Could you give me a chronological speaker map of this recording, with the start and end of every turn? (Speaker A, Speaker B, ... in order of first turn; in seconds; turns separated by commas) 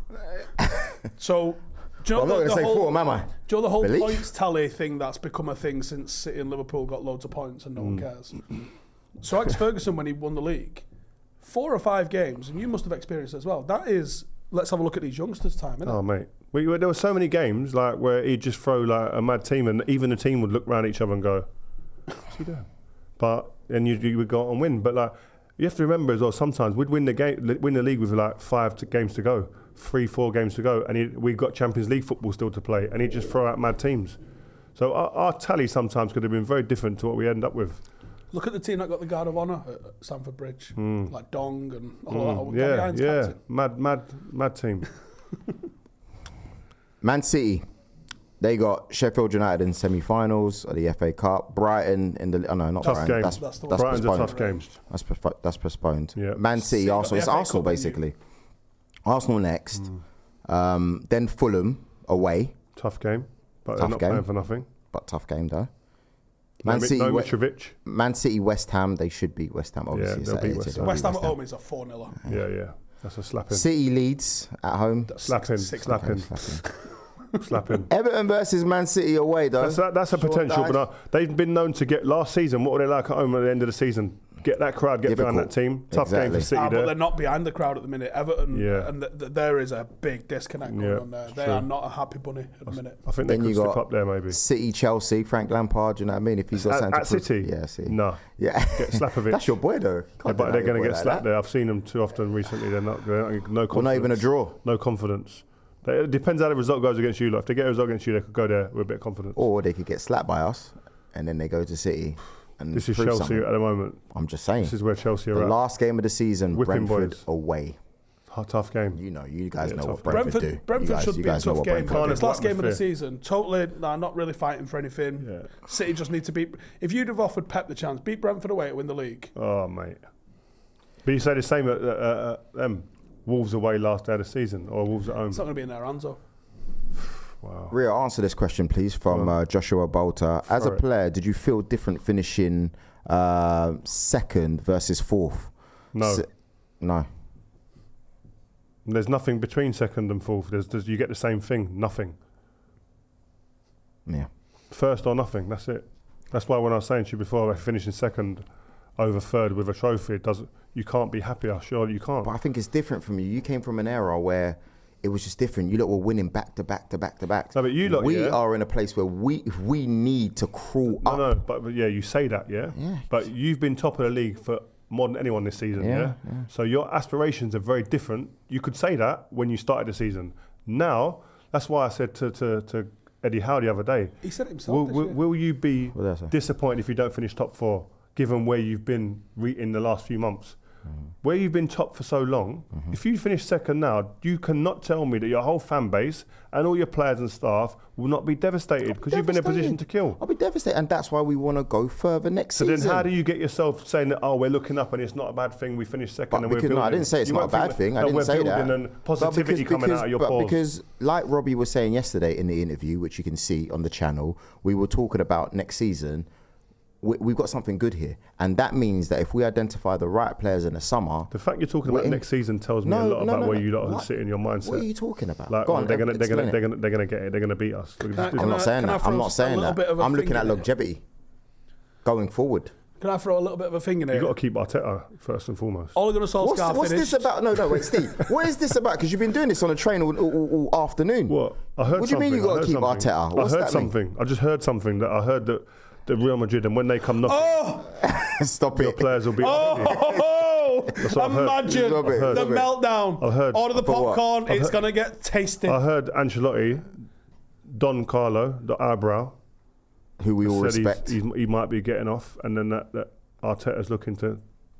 Speaker A: 0.6-0.9, Speaker B: 1.2-8.7, Speaker A: 2.1-4.3, Speaker C: 7.8-8.0, Speaker B: 9.2-10.8, Speaker B: 11.4-16.0, Speaker C: 15.8-21.5, Speaker C: 22.2-22.6, Speaker C: 23.2-34.1, Speaker C: 34.8-37.8, Speaker B: 38.3-43.4, Speaker C: 40.8-41.1, Speaker C: 42.1-44.9, Speaker A: 47.0-47.6, Speaker A: 48.4-58.1, Speaker B: 52.8-54.7, Speaker C: 52.8-54.7, Speaker C: 56.1-56.4, Speaker B: 56.6-58.0, Speaker A: 59.0-59.9, Speaker A: 60.5-62.5, Speaker C: 62.8-64.7, Speaker A: 63.8-64.3, Speaker A: 64.9-65.7, Speaker C: 66.6-67.7, Speaker A: 66.6-67.3, Speaker A: 67.8-71.3, Speaker C: 69.9-71.0, Speaker B: 70.8-72.2, Speaker C: 72.2-73.7, Speaker A: 73.5-75.1, Speaker B: 75.1-76.7, Speaker C: 75.2-76.4, Speaker A: 75.8-76.6, Speaker C: 77.4-77.9, Speaker A: 77.9-80.8, Speaker C: 79.6-87.0, Speaker A: 85.0-86.5, Speaker B: 86.5-93.0, Speaker C: 88.5-88.9, Speaker C: 90.7-91.7, Speaker C: 93.0-94.4, Speaker A: 93.2-101.2, Speaker C: 96.6-99.6, Speaker C: 100.2-109.4, Speaker A: 103.7-104.6, Speaker A: 109.3-113.4, Speaker C: 112.7-114.0, Speaker A: 114.1-114.7, Speaker C: 114.6-115.5, Speaker A: 115.3-117.8, Speaker C: 116.5-117.2, Speaker C: 118.3-119.0, Speaker A: 118.9-122.3, Speaker C: 119.6-120.3, Speaker B: 120.1-129.3, Speaker C: 121.8-122.8, Speaker C: 125.2-125.5, Speaker C: 129.3-130.0, Speaker C: 131.0-135.4, Speaker B: 135.3-136.2, Speaker C: 137.3-137.7, Speaker A: 137.7-146.2, Speaker C: 140.5-140.8, Speaker C: 145.9-146.2, Speaker A: 146.8-147.1, Speaker C: 148.8-152.2, Speaker C: 154.7-158.4, Speaker C: 159.0-162.3, Speaker A: 162.2-171.4, Speaker C: 167.5-168.4, Speaker C: 171.0-190.6, Speaker A: 172.8-173.1, Speaker A: 175.8-176.4, Speaker B: 184.2-185.2, Speaker A: 185.9-186.3, Speaker C: 191.2-200.2, Speaker A: 199.0-203.1, Speaker C: 202.6-210.6, Speaker A: 206.3-216.3, Speaker A: 217.0-221.3, Speaker C: 221.3-224.9, Speaker A: 221.8-222.2, Speaker A: 222.8-224.1, Speaker A: 224.6-226.6, Speaker C: 225.5-228.6, Speaker B: 228.1-230.7, Speaker A: 228.3-231.0, Speaker A: 232.0-232.7, Speaker B: 233.0-234.3, Speaker C: 234.1-235.9, Speaker B: 235.9-237.3, Speaker A: 236.4-243.9, Speaker C: 241.3-247.6, Speaker B: 247.2-247.9, Speaker A: 248.0-250.0, Speaker C: 248.7-250.1, Speaker B: 249.4-255.8, Speaker C: 251.0-252.6, Speaker A: 251.6-252.7, Speaker C: 253.2-253.7, Speaker A: 253.7-254.2, Speaker C: 254.4-254.8, Speaker C: 255.7-256.9, Speaker C: 257.7-259.3, Speaker A: 260.2-261.2, Speaker C: 260.4-264.4